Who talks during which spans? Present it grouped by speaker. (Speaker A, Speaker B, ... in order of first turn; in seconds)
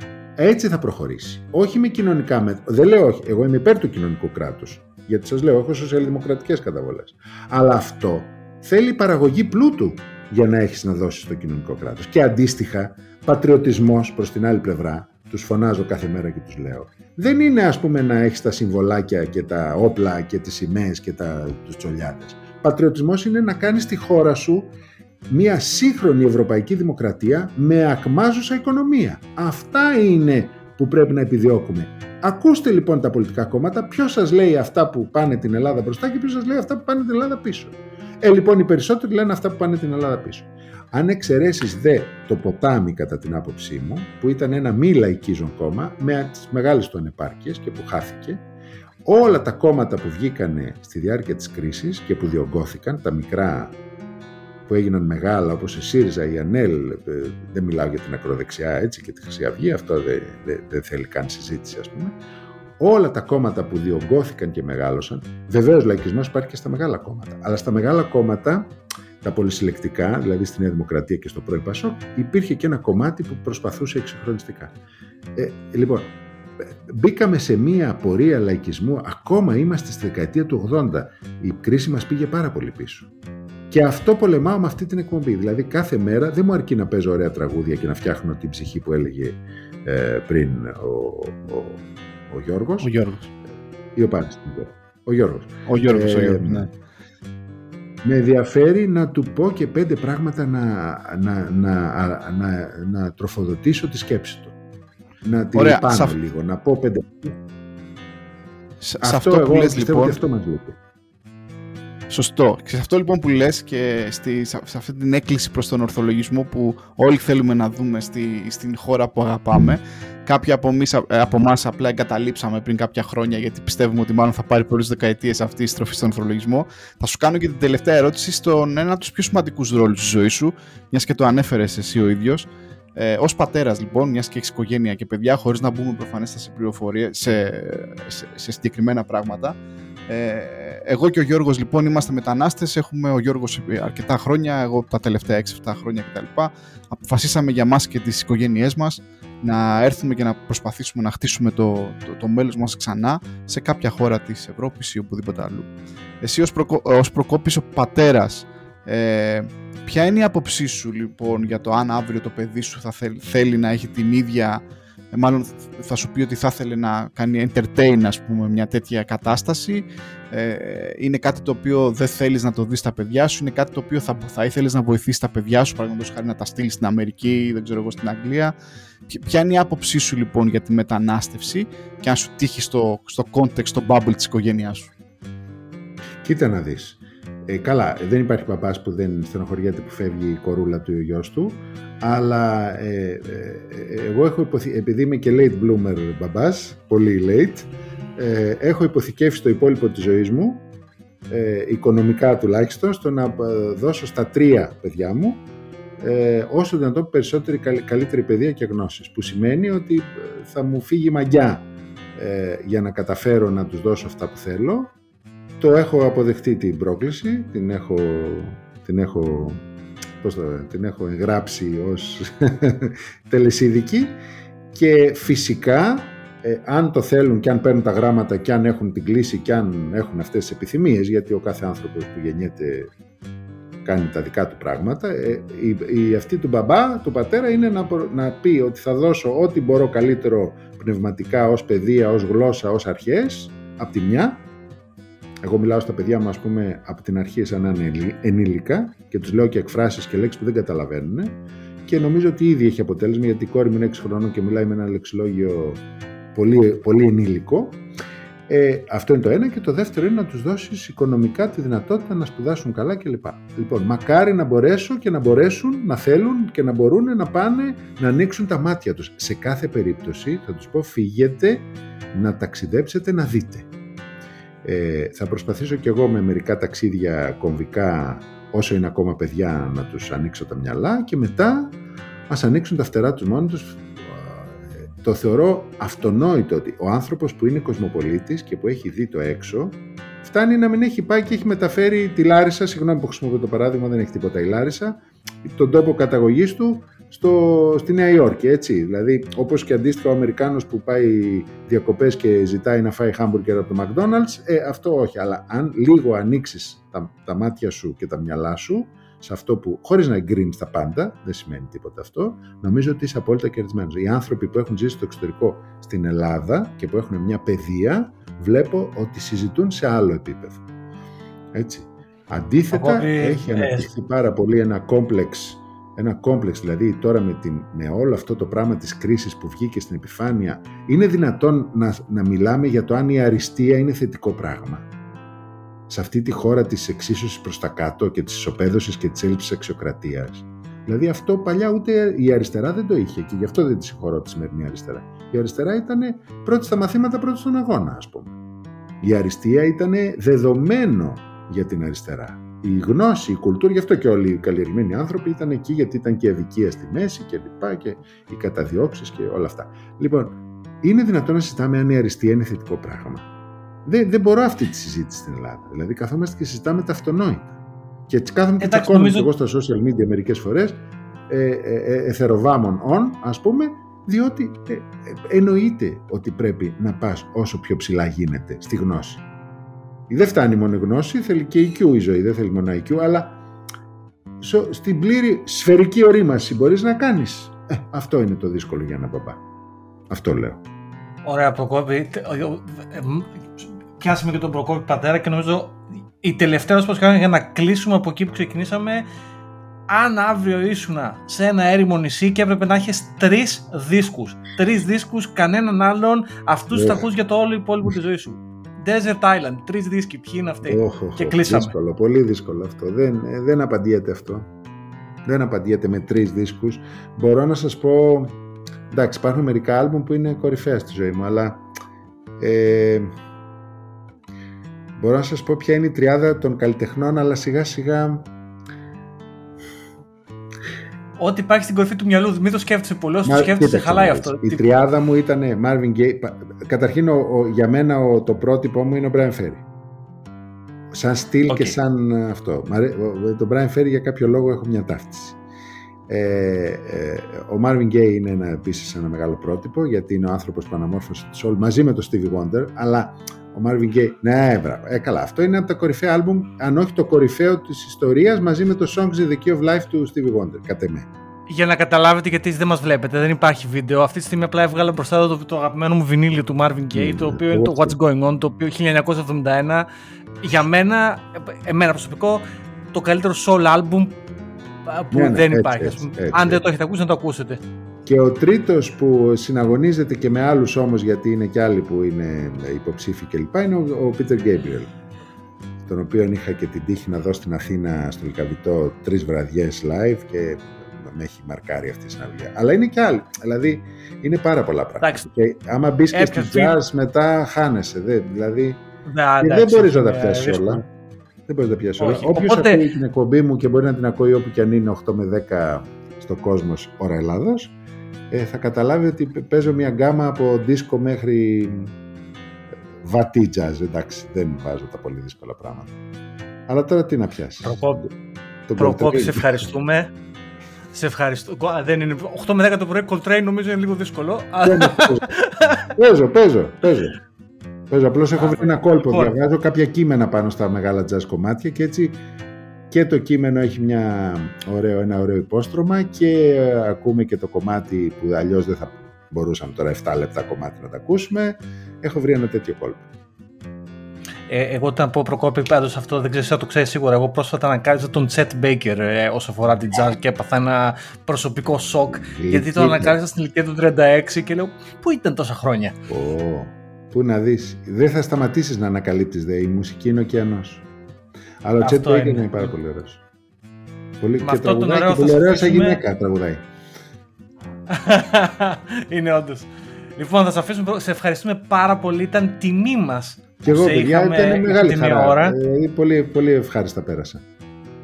Speaker A: 0.4-24.7, 25.3-48.4, 49.0-53.8, 54.7-62.2, 62.8-74.8, 75.3-83.1, 83.7-92.9, 94.0-96.7, 98.0-104.5, 105.2-107.4, 109.0-110.8, 186.2-200.7, 201.3-205.4, 206.0-214.9, 215.6-219.7, 220.2-224.2, 224.7-232.9, 233.8-244.4, 245.4-255.8, 256.3-257.8, 258.5-273.7, 274.6-281.8, 282.3-320.6, 321.5-334.9, 335.9-348.4, 349.0-363.3, 363.9-367.6, 368.1-379.2, 380.1-383.4, 384.4-389.4, 390.1-390.6, 406.7-407.1, 410.6-414.5, 415.2-421.7, 422.4-423.1, 425.0-428.3, 433.2-439.6, 440.9-445.4, 446.1-461.1, 466.9-468.0, 475.1-476.6, 478.1-484.9, 485.9-498.8, 499.4-500.8, 501.5-507.7, 508.3-511.9, 513.0-515.9, 516.7-518.1, 518.7-519.7, 524.6-525.3, 526.0-527.2, 527.9-532.2, 532.9-543.1, 552.1-553.2, 556.1-560.9, 561.6-563.2, 564.2-566.7, 573.6-577.5
Speaker B: 92.8-93.3, 95.7-96.7, 105.5-106.1, 108.8-110.2, 112.1-139.6, 140.1-155.7, 156.2-164.6, 165.1-178.5, 179.1-184.9
Speaker C: 322.7-323.9, 368.6-369.3, 391.2-399.1, 399.9-411.8, 431.2-434.6, 441.5-441.8, 461.5-469.9, 470.4-474.2, 474.9-477.6, 495.0-495.3, 496.1-496.8, 499.1-500.8, 502.0-502.9, 517.6-518.0, 518.8-520.1, 520.9-525.9, 528.4-529.4, 544.5-556.0, 561.8-562.7, 564.4-566.0, 567.9-575.6